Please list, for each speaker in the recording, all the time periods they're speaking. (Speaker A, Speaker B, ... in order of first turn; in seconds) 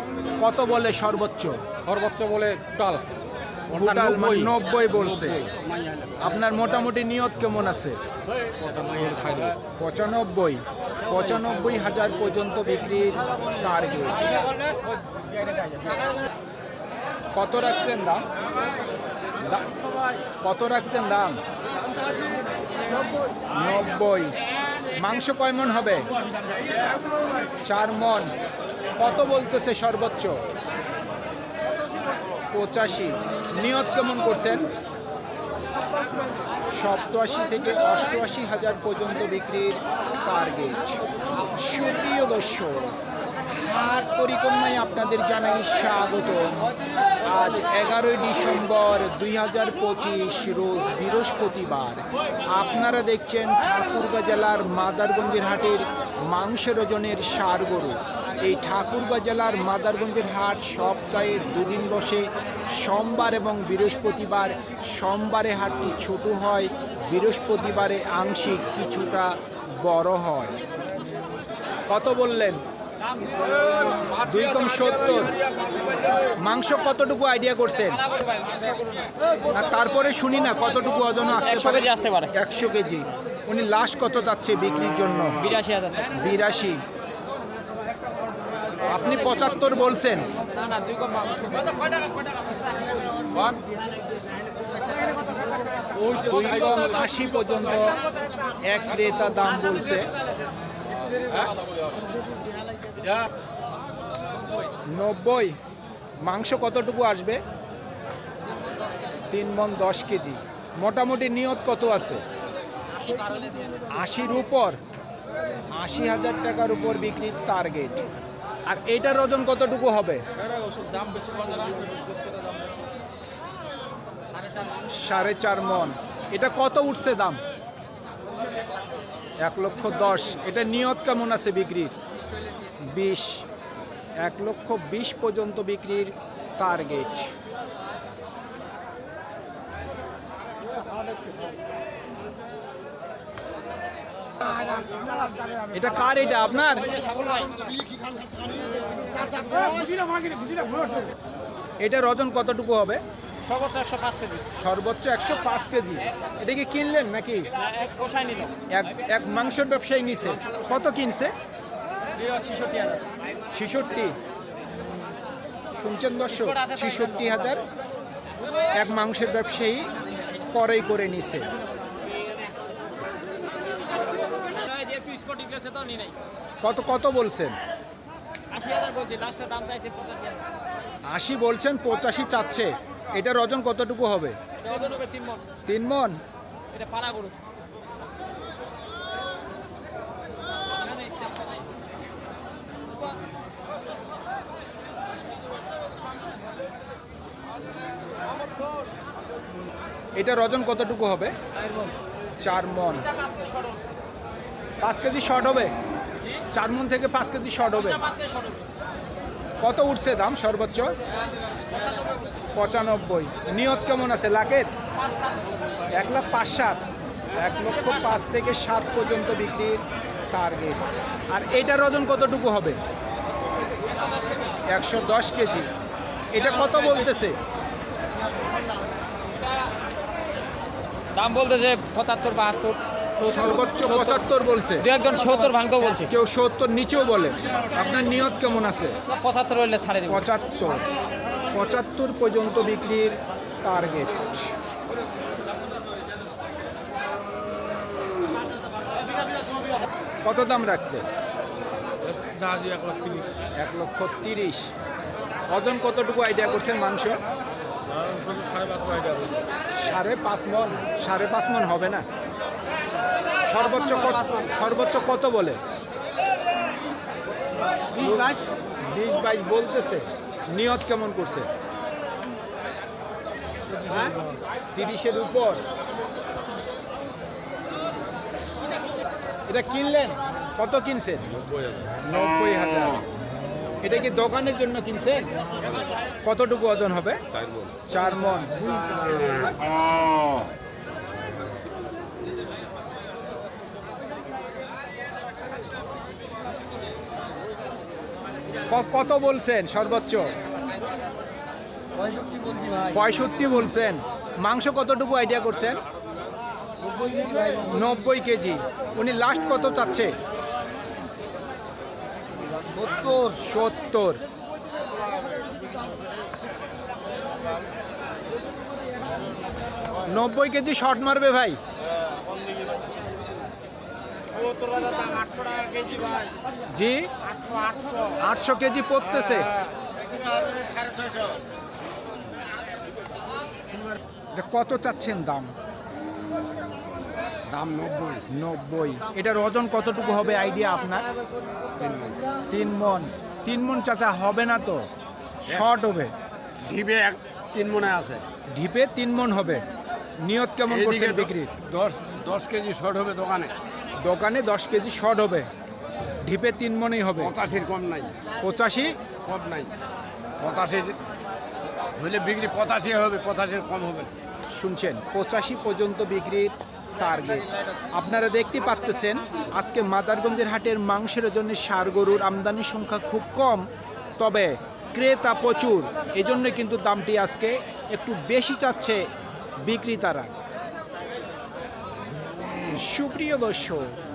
Speaker A: 0.4-1.6, 3.7-5.5, 6.2-8.0, 9.8-14.4, 17.3-18.2, 19.4-19.8, 20.4-21.4, 23.4-24.3, 24.9-26.1, 27.6-28.3, 28.9-30.4, 32.5-34.7, 36.6-41.0, 41.5-43.0, 43.5-46.7, 47.2-70.5, 71.9-72.6, 74.2-75.4, 76.2-78.0, 79.5-85.5, 86.1-86.8, 88.8-90.3, 96.1-98.0, 98.6-100.1, 104.9-105.6, 106.2-107.4, 109.3-112.2, 113.9-114.8, 115.7-118.0, 118.7-120.2, 124.9-127.4, 129.4-131.9, 132.8-133.4, 134.2-137.3, 145.7-147.0, 151.8-153.0, 154.6-157.5, 158.7-161.3, 163.5-164.2, 165.7-167.6, 168.7-169.9, 170.5-171.5, 176.6-177.6, 181.0-184.4, 185.7-186.2, 200.2-201.3, 202.4-203.1, 204.8-205.7, 206.5-208.1, 209.6-210.9, 212.6-214.7, 215.9-216.8, 217.3-222.8, 224.7-225.7, 226.3-227.4, 233.2-234.9, 235.8-238.9, 240.1-240.8, 241.5-244.5, 250.2-251.0, 253.6-254.7, 255.5-257.2, 259.8-262.1, 263.4-265.6, 267.9-271.5, 274.7-275.6, 279.5-281.3, 282.0-283.0, 283.8-285.3, 286.2-287.2, 287.7-288.7, 298.7-300.3, 302.9-305.8, 307.5-310.1, 313.3-314.2, 320.0-321.6, 326.7-327.1, 328.1-329.5, 334.3-335.5, 338.3-341.1, 342.5-344.9, 345.4-346.1, 348.5-349.6, 350.2-351.6, 354.0-355.5, 356.2-357.3, 358.4-359.0, 364.5-379.1, 379.6-380.3, 382.7-383.9
Speaker B: 1.8-3.1, 3.7-6.2, 8.6-9.6, 75.6-76.1, 121.1-121.5, 252.2-253.3, 257.9-259.4, 324.4-326.3, 337.5-338.3, 341.8-342.2, 346.6-348.2, 350.7-353.5, 357.2-358.1, 359.2-359.7, 360.4-361.0, 362.0-364.1
Speaker C: 73.0-74.2, 78.0-78.7, 81.3-82.3, 85.4-86.2, 90.5-92.2, 146.9-147.8, 153.4-154.4, 157.6-158.5, 162.2-163.1, 166.3-167.4, 174.5-176.2, 178.5-180.4, 184.6-185.4, 186.7-187.3, 190.9-191.3, 203.2-203.7, 208.0-208.6, 211.7-212.1, 215.0-215.3, 223.9-224.4, 231.1-234.2, 234.8-236.1, 239.1-240.2
Speaker D: 302.0-302.9, 307.0-307.5, 312.7-313.3